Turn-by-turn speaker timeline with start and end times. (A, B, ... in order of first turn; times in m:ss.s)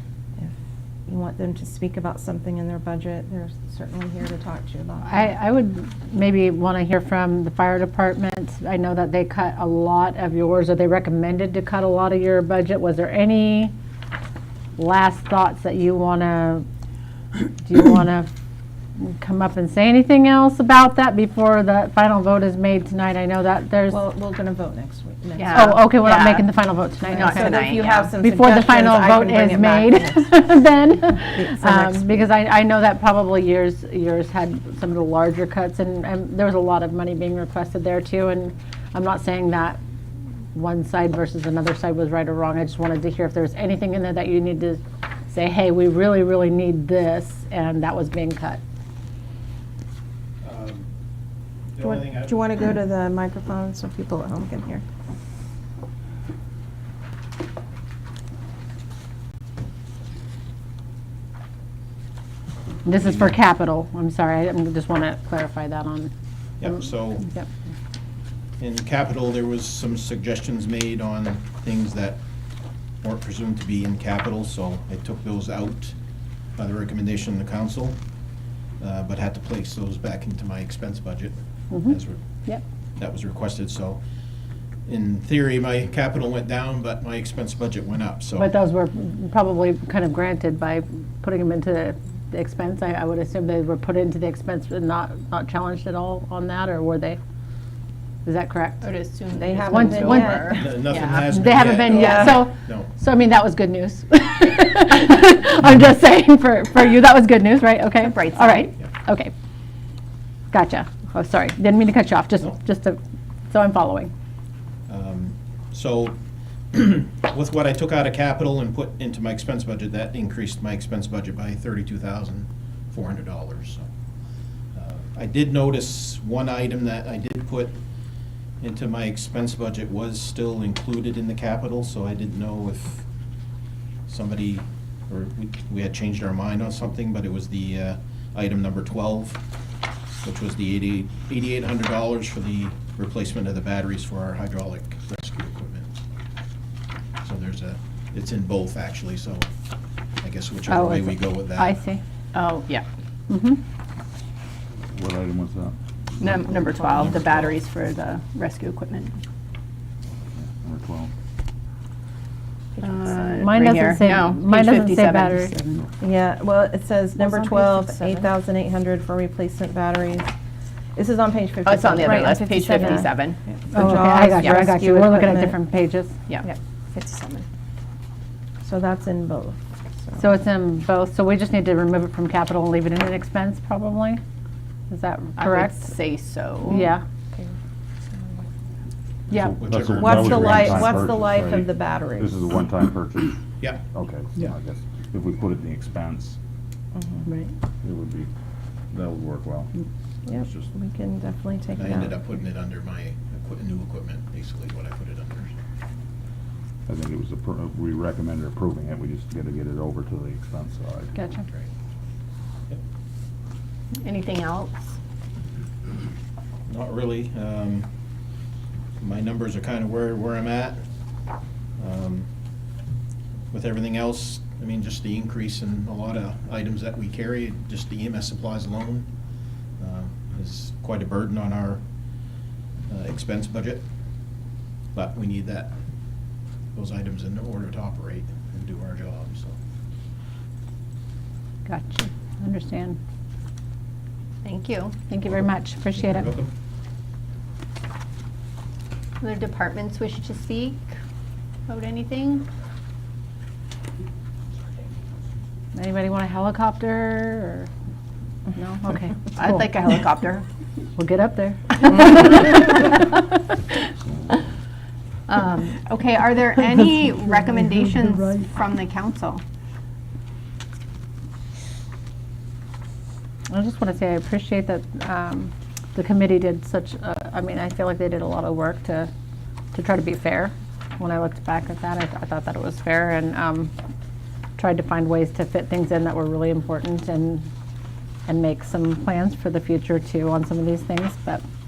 0:01.1-0:05.4 A
0:05.0-0:13.7 B
0:14.8-0:16.6 B
0:17.6-0:18.3 B
0:19.0-0:24.0 B
0:23.9-0:25.8 A
0:25.4-0:26.5 C
0:25.5-0:39.8 B
0:27.1-0:28.1 C
0:27.1-0:30.6 A
0:31.4-0:32.2 A
0:40.5-0:48.6 B
0:50.4-0:50.9 D
0:51.7-0:52.4 D
0:51.8-0:54.8 A
1:02.8-1:07.4 B
1:03.0-1:03.3 D
1:06.6-1:07.3 D
1:08.6-1:12.2 D
1:13.0-1:15.9 D
1:16.6-1:18.0 D
1:18.8-1:22.2 D
1:21.7-1:22.6 B
1:23.0-1:24.0 D
1:24.8-1:28.5 D
1:28.3-1:37.2 B
1:38.2-1:38.9 B
1:38.8-1:41.4 C
1:39.3-1:40.8 A
1:39.7-1:49.3 B
1:40.5-1:42.9 D
1:42.0-1:42.5 A
1:48.0-1:48.7 C
1:50.5-1:53.0 B
1:53.5-1:54.1 B
1:54.9-1:56.2 D
1:56.7-2:03.9 D
2:04.7-2:07.8 D
2:08.6-2:13.0 D
2:14.1-2:19.4 D
2:20.2-2:25.9 D
2:27.2-2:29.5 D
2:30.2-2:31.8 D
2:30.6-2:32.0 B
2:32.3-2:32.8 C
2:33.3-2:33.6 B
2:34.9-2:36.4 E
2:36.2-2:39.1 C
2:40.3-2:41.1 E
2:42.8-2:45.5 C
2:43.3-2:45.8 B
2:46.0-2:50.3 A
2:47.3-2:48.0 B
2:51.0-2:55.6 A
2:51.6-2:53.4 C
2:52.7-2:53.0 B
2:53.7-2:56.1 B
2:54.4-2:54.7 C
2:56.3-2:57.4 C
2:58.6-3:00.4 A
3:00.2-3:04.2 B
3:04.9-3:05.9 B
3:05.4-3:06.9 C
3:06.7-3:07.0 B
3:09.3-3:10.8 D
3:09.3-3:16.4 E
3:09.9-3:12.4 A
3:16.9-3:17.3 A
3:17.2-3:17.5 B
3:17.8-3:18.3 E
3:18.9-3:19.7 E
3:20.3-3:22.2 A
3:20.4-3:20.7 D
3:21.7-3:25.5 D
3:26.9-3:31.1 E
3:31.1-3:31.4 B
3:34.0-3:34.9 C
3:36.7-3:37.9 D
3:39.0-3:40.8 D
3:41.8-3:42.3 D
3:43.5-3:49.1 D
3:49.8-3:51.8 D
3:52.9-3:53.8 D
3:54.9-3:55.7 D
3:56.7-3:59.5 D
4:01.6-4:03.0 B
4:04.4-4:05.0 C
4:05.1-4:06.4 B
4:05.9-4:06.5 D
4:09.2-4:10.9 C
4:11.7-4:12.4 C
4:15.7-4:17.7 B
4:18.6-4:19.7 B
4:19.3-4:20.4 C
4:21.0-4:23.3 B
4:24.0-4:24.4 E
4:25.3-4:29.4 C
4:33.5-4:39.1 B
4:39.7-4:43.7 B
4:44.6-4:47.5 B
4:48.3-4:51.4 B